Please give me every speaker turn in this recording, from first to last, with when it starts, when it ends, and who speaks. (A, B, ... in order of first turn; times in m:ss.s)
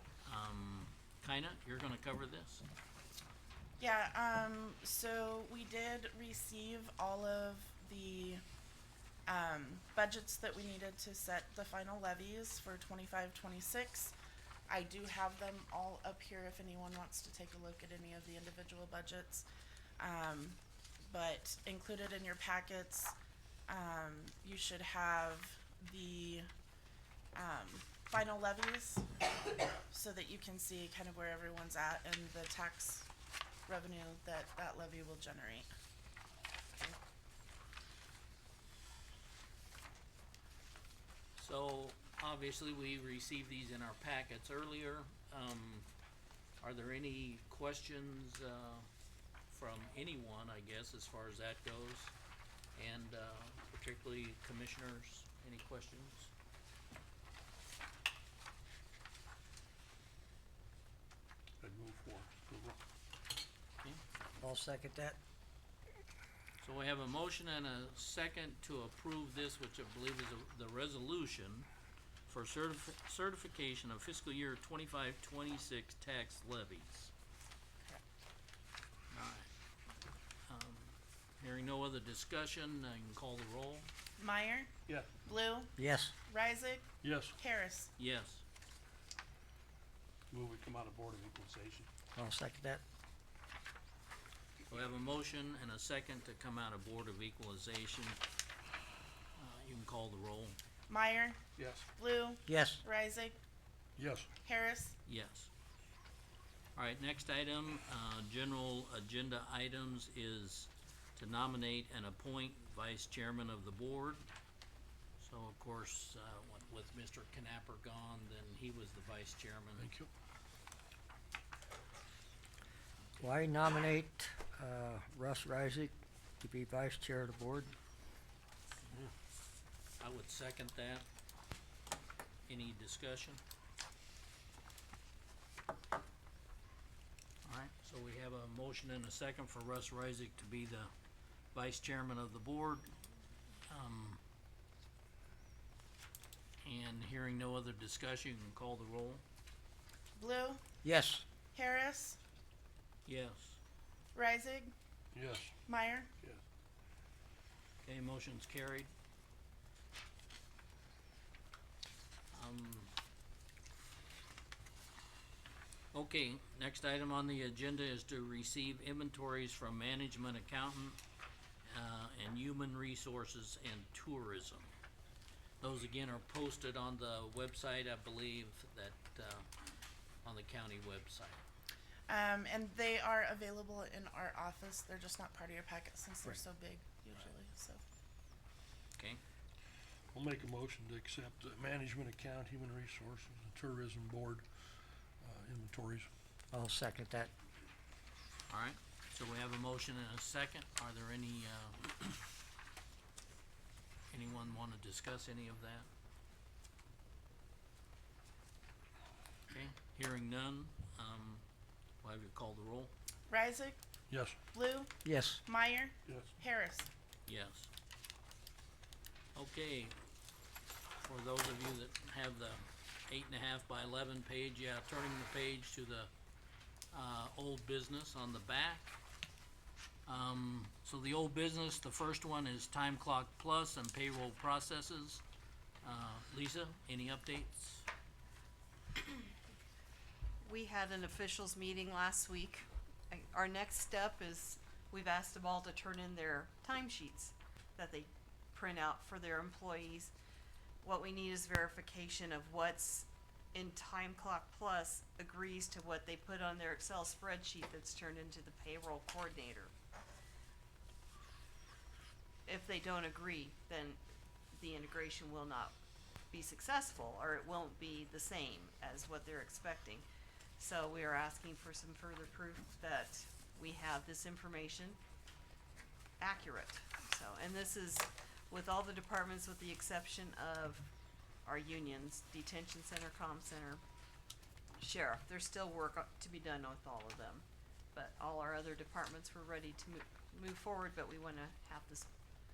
0:00.2-0:02.6 A
0:03.8-0:08.4 B
0:09.3-0:14.1 B
0:14.7-0:19.4 B
0:20.0-0:23.1 B
0:23.7-0:26.5 B
0:27.3-0:29.1 B
0:29.9-0:33.1 B
0:33.7-0:35.7 B
0:41.4-0:45.9 A
0:46.6-0:48.8 A
0:49.5-0:52.1 A
0:52.7-0:56.3 A
1:01.6-1:02.8 C
1:04.4-1:05.2 D
1:06.6-1:11.7 A
1:12.3-1:17.1 A
1:19.1-1:19.5 A
1:20.5-1:23.9 A
1:24.2-1:24.7 B
1:25.2-1:27.9 B
1:25.8-1:26.1 D
1:27.0-1:27.4 C
1:28.0-1:28.4 A
1:30.3-1:31.9 C
1:32.1-1:32.8 D
1:34.7-1:38.2 A
1:39.4-1:40.6 A
1:40.9-1:41.4 B
1:41.6-1:41.8 C
1:42.0-1:43.4 B
1:42.5-1:42.8 D
1:44.0-1:44.3 C
1:44.4-1:45.0 B
1:45.0-1:45.5 A
1:46.8-1:54.3 A
1:55.2-1:59.9 A
1:59.8-2:00.1 C
2:03.2-2:07.7 D
2:10.0-2:11.0 A
2:12.5-2:13.4 A
2:17.4-2:20.9 A
2:21.5-2:22.9 A
2:23.7-2:24.2 A
2:26.6-2:29.2 A
2:30.2-2:30.6 B
2:30.8-2:31.2 D
2:31.5-2:32.2 B
2:33.0-2:33.6 A
2:34.1-2:34.7 B
2:35.1-2:35.6 C
2:35.7-2:36.1 B
2:37.8-2:38.9 A
2:42.3-2:42.9 A
2:45.9-2:51.0 A
2:51.6-2:54.7 A
2:55.6-2:59.5 A
3:00.2-3:01.4 A
3:02.1-3:07.8 B
3:10.1-3:14.4 C
3:15.2-3:16.1 C
3:16.5-3:17.3 D
3:18.5-3:22.2 A
3:24.1-3:25.9 A
3:29.5-3:31.4 A
3:32.0-3:32.9 A
3:33.3-3:33.8 B
3:34.1-3:34.4 C
3:34.5-3:36.9 B
3:35.0-3:35.4 D
3:36.1-3:36.3 C
3:37.3-3:37.7 A
3:39.3-3:39.9 A
3:41.0-3:46.1 A
3:46.9-3:49.0 A
3:50.1-3:55.2 A
3:55.8-3:57.8 A
4:00.4-4:10.1 E
4:10.8-4:19.7 E
4:22.4-4:24.0 E
4:24.5-4:25.8 E
4:26.3-4:30.0 E
4:30.6-4:35.0 E
4:36.2-4:40.9 E
4:41.4-4:43.8 E
4:44.8-4:52.1 E